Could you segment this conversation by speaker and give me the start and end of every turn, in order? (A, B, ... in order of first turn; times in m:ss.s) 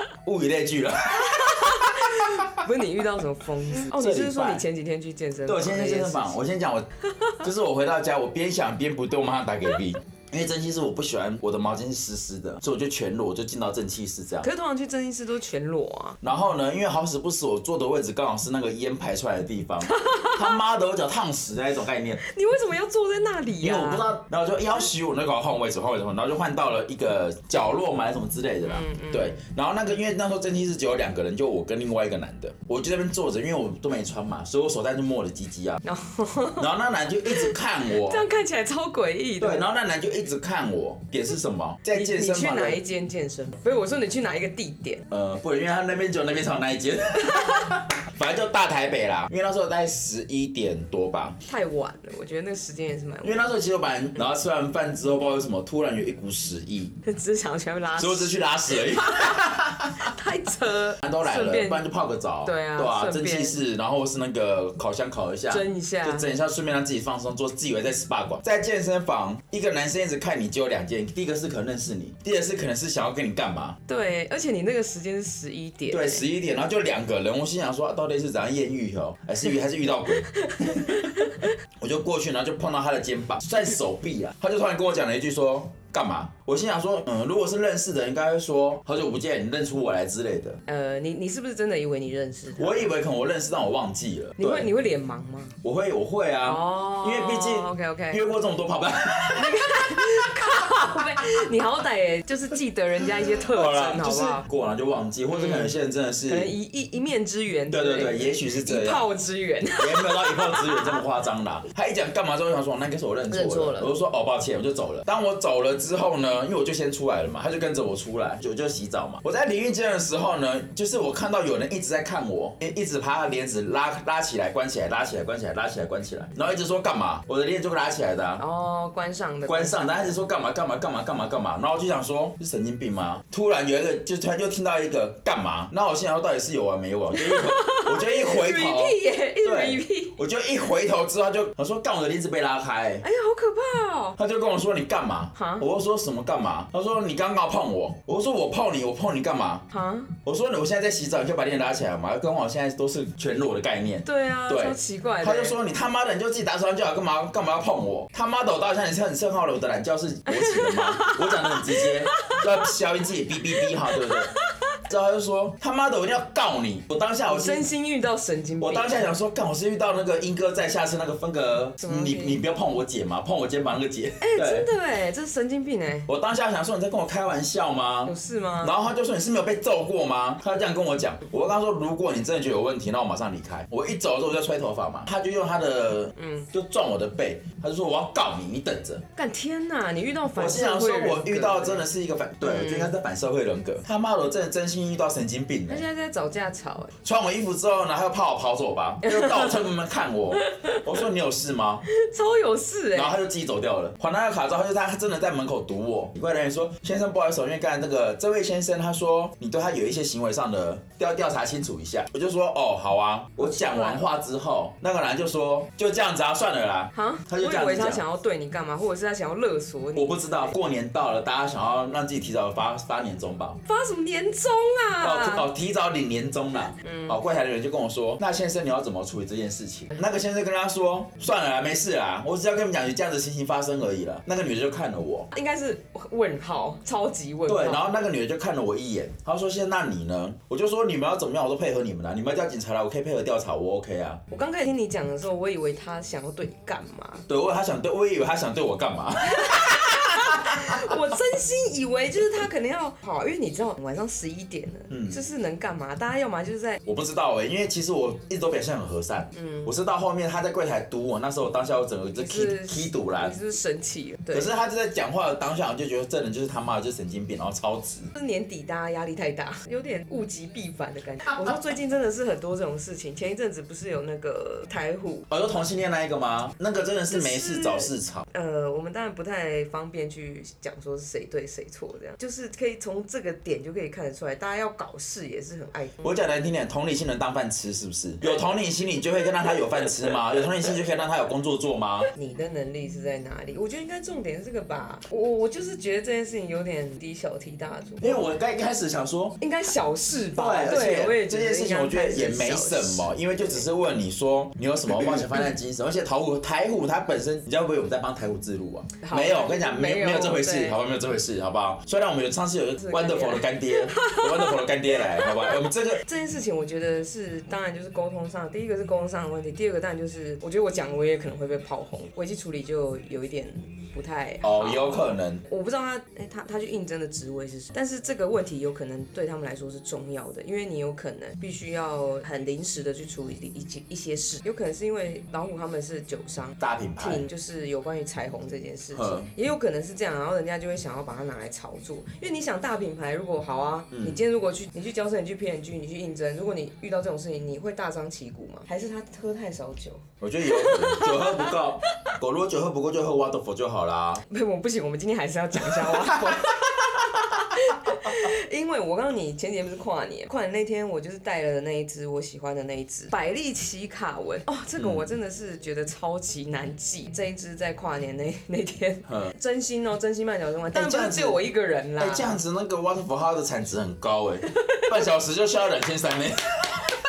0:00.2-0:02.5 A
0:01.2-0:06.4 B
0:03.9-0:04.6 A
0:05.5-0:06.9 A
0:07.4-0:14.5 A
0:14.4-0:16.2 B
0:16.2-0:22.2 A
0:19.9-0:20.5 B
0:22.2-0:24.1 B
0:23.6-0:35.8 A
0:28.6-0:29.4 B
0:35.8-0:36.7 B
0:36.6-0:38.2 A
0:37.3-0:39.6 B
0:39.4-0:42.8 A
0:41.9-0:45.0 B
0:45.1-0:51.4 A
0:47.3-0:47.7 B
0:51.5-0:53.5 B
0:53.2-0:56.9 A
0:57.0-1:01.8 B
0:58.0-1:00.0 A
1:01.0-1:13.8 A
1:02.4-1:03.6 B
1:05.5-1:06.3 B
1:13.9-1:16.2 B
1:15.9-1:30.6 A
1:20.3-1:21.5 B
1:30.7-1:32.9 B
1:32.6-1:34.7 A
1:34.4-1:35.6 B
1:35.6-1:40.4 A
1:36.4-1:38.2 B
1:39.4-1:44.4 B
1:43.4-1:46.5 A
1:45.3-1:45.7 B
1:46.3-1:51.0 B
1:47.7-1:49.1 A
1:49.8-2:08.4 A
1:53.3-1:54.0 B
2:08.4-2:10.2 B
2:09.5-2:23.0 A
2:17.1-2:20.2 B
2:23.0-2:24.2 B
2:24.2-2:29.6 A
2:25.4-2:25.6 B
2:29.7-2:30.1 B
2:30.3-2:44.3 A
2:34.0-2:35.6 B
2:40.3-2:42.4 B
2:43.9-2:44.4 B
2:44.8-2:47.7 A
2:47.2-2:49.2 B
2:48.6-2:54.7 A
2:51.8-2:52.4 B
2:54.2-2:56.1 B
2:56.1-3:09.0 A
2:58.1-2:58.7 B
3:06.2-3:06.5 B
3:09.2-3:11.9 B
3:10.4-3:15.8 A
3:12.4-3:12.9 B
3:15.7-3:17.0 B
3:17.0-3:21.8 A
3:19.0-3:19.6 B
3:20.4-3:20.8 B
3:21.9-3:23.2 B
3:22.9-3:38.0 A
3:33.4-3:34.0 B
3:36.9-3:40.5 B
3:40.0-3:43.6 A
3:43.6-3:45.5 B
3:45.0-3:55.3 A
3:46.8-3:47.2 B
3:55.3-3:58.0 B
3:57.5-4:04.2 A
4:04.3-4:07.3 B
4:07.3-4:11.0 A
4:09.2-4:16.8 B
4:14.9-4:15.2 A
4:16.9-4:23.4 A
4:19.3-4:19.7 B
4:22.2-4:24.5 B
4:24.3-4:28.1 A
4:28.1-4:35.3 B
4:35.3-4:38.2 A
4:37.1-4:46.2 B
4:46.0-4:52.1 A
4:52.2-4:58.3 B
4:58.0-4:59.4 A
4:59.4-5:03.6 B
5:00.3-5:16.0 A
5:09.0-5:10.8 B
5:12.8-5:52.1 B
5:24.4-5:25.4 A
5:36.6-5:37.3 A
5:38.9-5:39.3 A
5:43.9-5:44.2 A
5:50.2-5:54.2 A
5:54.3-6:12.4 B
6:04.8-6:05.2 A
6:09.1-6:09.3 A
6:10.7-6:11.4 A
6:12.0-6:16.8 A
6:14.5-6:14.9 B